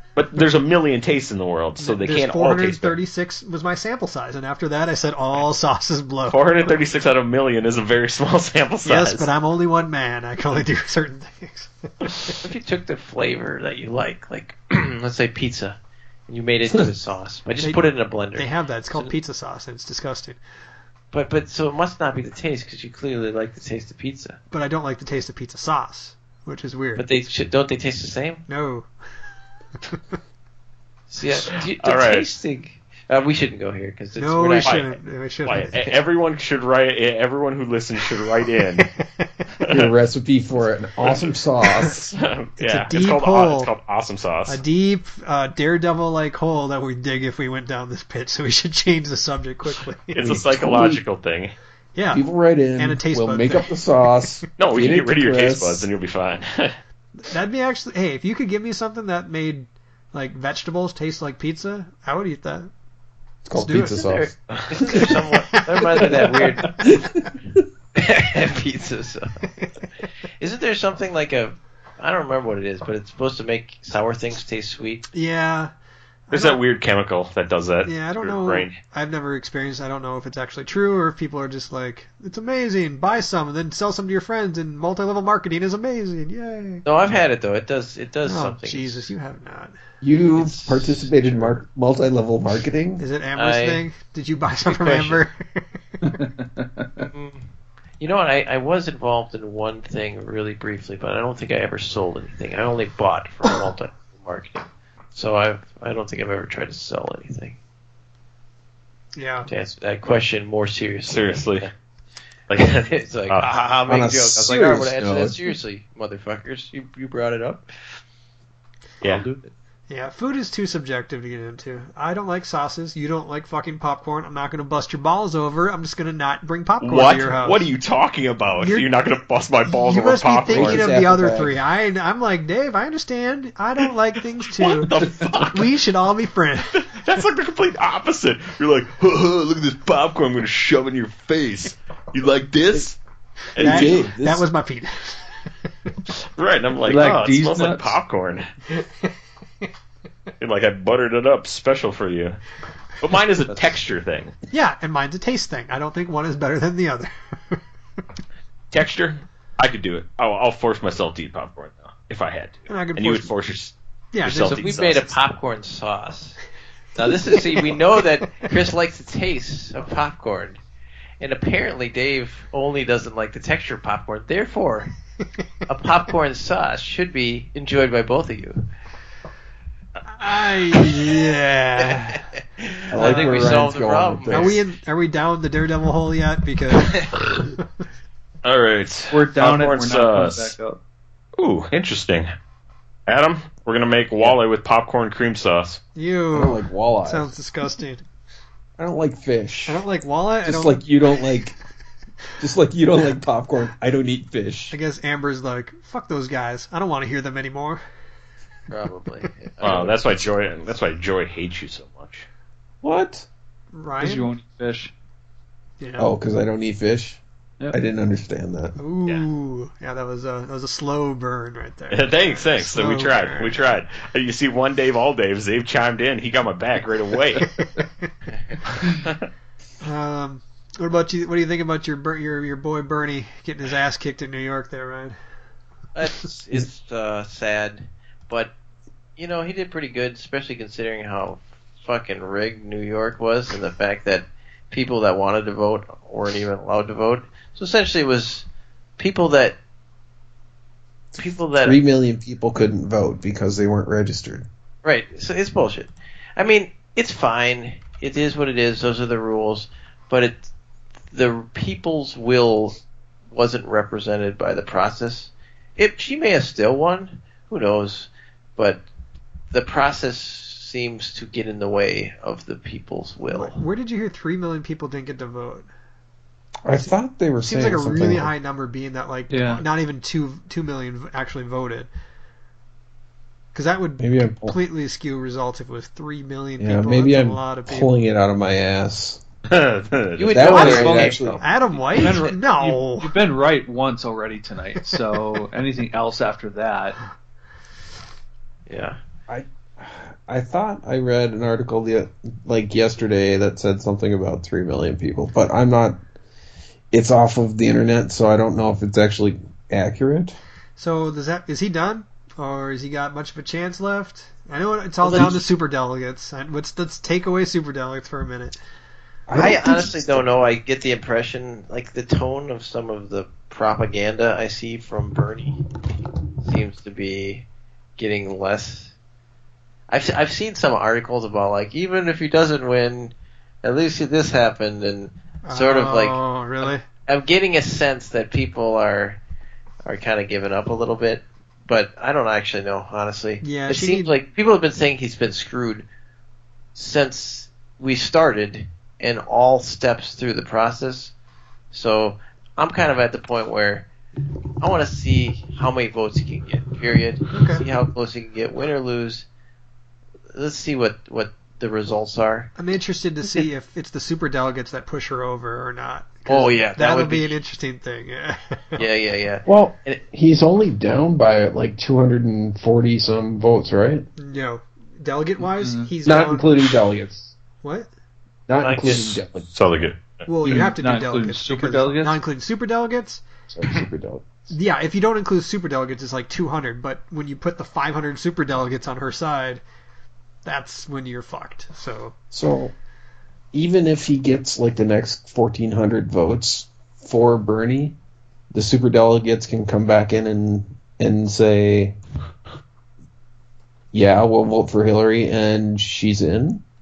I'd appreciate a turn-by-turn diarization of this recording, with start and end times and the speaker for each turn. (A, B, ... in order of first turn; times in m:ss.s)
0:00.2-0:03.0 A
0:01.8-0:06.7 B
0:06.3-0:09.3 A
0:08.8-0:12.3 B
0:12.4-0:15.8 C
0:16.3-0:19.1 C
0:17.6-0:20.4 B
0:21.1-0:24.4 C
0:24.5-0:27.1 B
0:27.0-0:28.4 C
0:28.5-0:28.9 B
0:29.8-0:30.2 B
0:31.1-0:34.9 C
0:31.8-0:32.3 A
0:34.2-0:35.7 B
0:35.5-0:38.9 A
0:39.7-0:42.0 D
0:41.8-0:44.6 A
0:42.6-0:43.7 B
0:44.5-0:50.2 B
0:50.1-0:51.5 A
0:50.2-0:51.0 D
0:52.0-0:52.2 B
0:52.1-0:55.9 D
0:52.8-0:53.7 B
0:54.6-0:56.8 A
0:57.2-1:02.7 B
1:03.4-1:04.4 D
1:03.5-1:04.0 B
1:03.9-1:06.7 C
1:04.9-1:06.8 B
1:06.8-1:07.6 D
1:08.0-1:09.4 C
1:09.6-1:09.8 B
1:10.4-1:15.1 C
1:15.1-1:15.7 B
1:16.3-1:16.6 B
1:16.3-1:18.8 A
1:17.8-1:26.8 B
1:26.8-1:29.0 C
1:28.2-1:29.8 B
1:30.0-1:33.0 D
1:30.4-1:31.6 C
1:33.0-1:35.4 B
1:33.4-1:33.8 C
1:34.7-1:35.2 C
1:36.6-1:37.1 E
1:37.0-1:37.5 C
1:38.0-1:47.6 C
1:49.2-1:49.5 B
1:49.5-1:51.7 C
1:51.1-1:51.7 A
1:52.5-1:53.5 A
1:52.7-1:57.7 C
1:53.9-1:55.4 D
1:59.0-1:59.5 C
1:59.9-2:07.6 B
2:06.8-2:10.9 A
2:08.6-2:08.9 B
2:09.6-2:14.9 B
2:10.5-2:11.6 D
2:14.6-2:15.7 A
2:15.5-2:16.9 B
2:16.9-2:23.0 A
2:23.6-2:24.0 A
2:23.6-2:25.3 B
2:23.6-2:24.4 D
2:26.4-2:28.5 A
2:26.8-2:28.0 E
2:30.4-2:32.4 A
2:33.0-2:34.3 A
2:34.5-2:37.6 B
2:38.7-2:45.1 A
2:42.7-2:43.3 B
2:44.1-2:45.2 B
2:44.6-2:46.4 C
2:47.0-2:50.6 C
2:51.2-2:54.9 C
2:55.7-2:58.6 C
3:00.1-3:02.2 B
3:01.8-3:04.6 C
3:02.9-3:04.6 D
3:03.0-3:03.5 B
3:04.3-3:07.4 B
3:06.8-3:07.1 C
3:08.4-3:10.5 A
3:09.1-3:10.8 E
3:11.4-3:12.3 A
3:13.1-3:15.8 A
3:16.0-3:18.0 B
3:16.3-3:17.3 D
3:18.8-3:19.8 D
3:19.7-3:20.8 B
3:20.4-3:21.5 D
3:22.4-3:24.8 D
3:24.7-3:27.8 B
3:28.7-3:30.3 C
3:29.6-3:32.3 A
3:32.8-3:33.3 D
3:33.7-3:34.3 B
3:34.0-3:34.9 E
3:35.8-3:36.1 B
3:36.0-3:37.2 D
3:37.7-3:38.8 D
3:38.8-3:43.6 B
3:41.9-3:47.5 A
3:47.4-3:48.1 B
3:48.7-3:49.2 A
3:49.8-3:55.2 B
3:56.0-3:58.5 C
3:59.2-4:08.5 C
4:09.0-4:09.6 C
4:11.2-4:11.8 C
4:11.6-4:14.5 D
4:14.8-4:20.5 C
4:21.1-4:22.8 C
4:23.3-4:28.8 C
4:29.5-4:33.6 C
4:33.3-4:35.7 B
4:36.6-4:38.3 D
4:37.4-4:41.9 B
4:39.3-4:39.6 E
4:43.5-4:47.9 B
4:44.0-4:44.6 D
4:46.6-4:49.2 D
4:49.5-4:51.0 A
4:50.2-4:51.5 C
4:50.3-4:51.4 D
4:50.5-4:50.9 B
4:50.6-4:51.2 E
4:51.4-4:53.1 B
4:51.9-4:57.0 E
4:58.7-4:59.0 C
4:59.3-5:06.0 D
5:06.9-5:10.4 D
5:10.8-5:18.6 B
5:15.0-5:15.3 C
5:15.1-5:15.4 D
5:19.3-5:20.3 D
5:19.3-5:25.6 C
5:26.4-5:27.4 C
5:28.0-5:28.9 C
5:29.9-5:39.2 C
5:35.4-5:36.8 B
5:39.8-5:45.9 C
5:43.4-5:44.1 B
5:46.8-5:51.1 C
5:51.7-5:53.9 C
5:54.6-5:59.3 C
5:57.3-5:57.6 B
6:00.3-6:02.5 C
6:02.6-6:08.8 B
6:06.3-6:07.4 C
6:08.8-6:10.0 C
6:09.5-6:14.1 D
6:14.2-6:16.5 B
6:15.4-6:15.9 E
6:16.0-6:17.4 D
6:17.6-6:17.9 B
6:18.5-6:19.5 D
6:18.6-6:19.2 C
6:19.5-6:20.2 A
6:20.3-6:23.2 B
6:20.5-6:22.2 E
6:23.5-6:24.3 D
6:24.5-6:29.6 B
6:30.4-6:32.2 B
6:32.3-6:32.7 D
6:33.5-6:38.0 D
6:38.5-6:42.0 D
6:43.9-6:46.6 D